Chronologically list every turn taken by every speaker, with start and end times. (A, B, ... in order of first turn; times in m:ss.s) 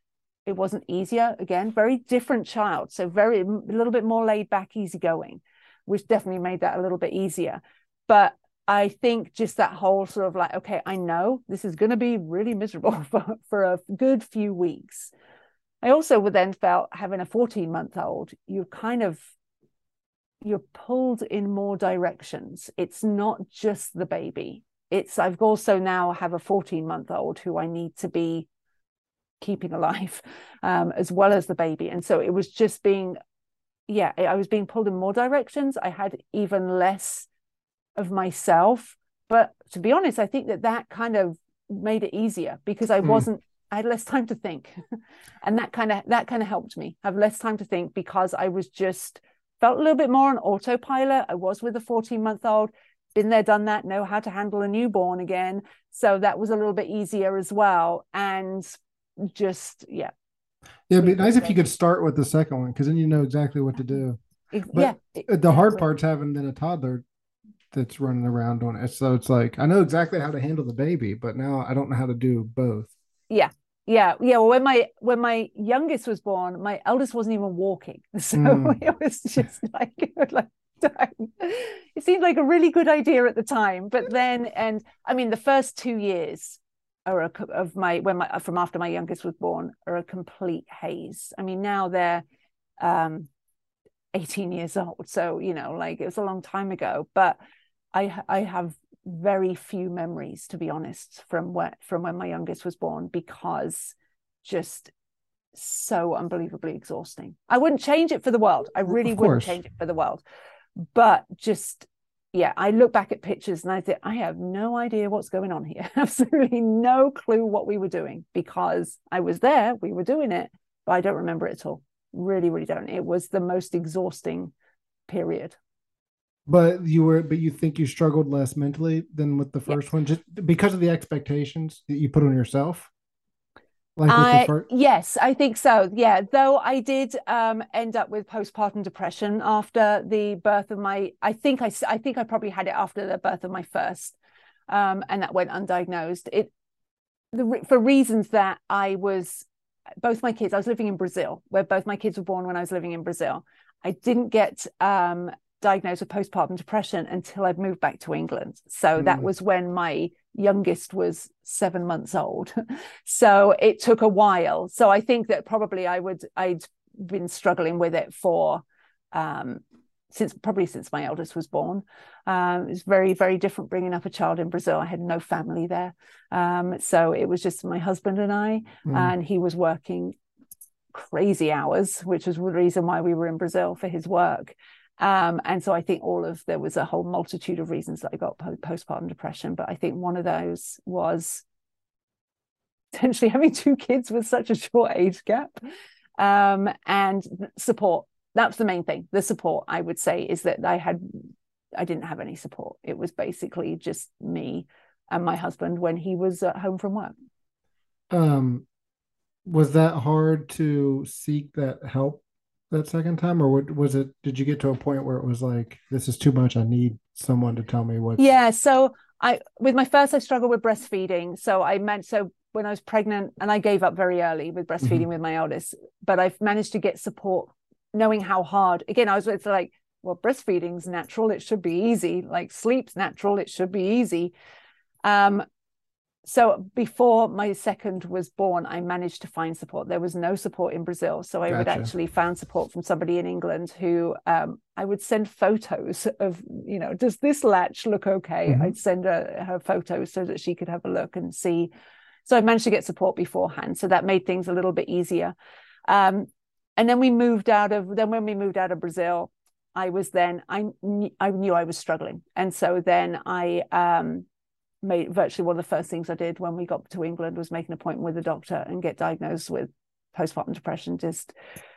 0:00.5-0:15.1 A
0:15.8-0:19.3 A
0:20.4-0:28.5 A
0:29.4-0:33.2 A
0:33.9-0:37.3 A
0:38.0-0:44.8 A
0:45.4-1:00.1 A
1:00.9-1:04.2 B
1:01.0-1:01.6 A
1:04.5-1:05.5 A
1:04.7-1:07.0 B
1:07.7-1:12.9 B
1:13.3-1:32.2 A
1:18.4-1:18.8 B
1:32.8-1:33.3 A
1:34.1-1:37.4 A
1:37.9-1:44.9 A
1:45.6-1:50.2 A
1:49.0-1:49.6 B
1:50.8-2:04.5 A
2:05.1-2:05.6 A
2:06.5-2:12.9 B
2:14.0-2:14.6 B
2:14.1-2:24.2 A
2:24.7-2:26.5 A
2:27.3-2:29.5 A
2:30.0-3:00.2 A
2:39.0-2:39.3 B
2:58.9-2:59.1 B
3:00.9-3:11.4 A
3:12.9-3:15.6 A
3:16.2-3:27.1 A
3:28.1-3:28.7 B
3:29.5-3:38.2 B
3:38.2-3:54.3 A
3:55.0-3:55.4 A
3:56.2-4:11.7 A
4:01.5-4:01.9 B
4:08.5-4:08.7 B
4:12.3-4:15.3 A
4:15.9-4:24.3 A
4:24.8-4:31.3 A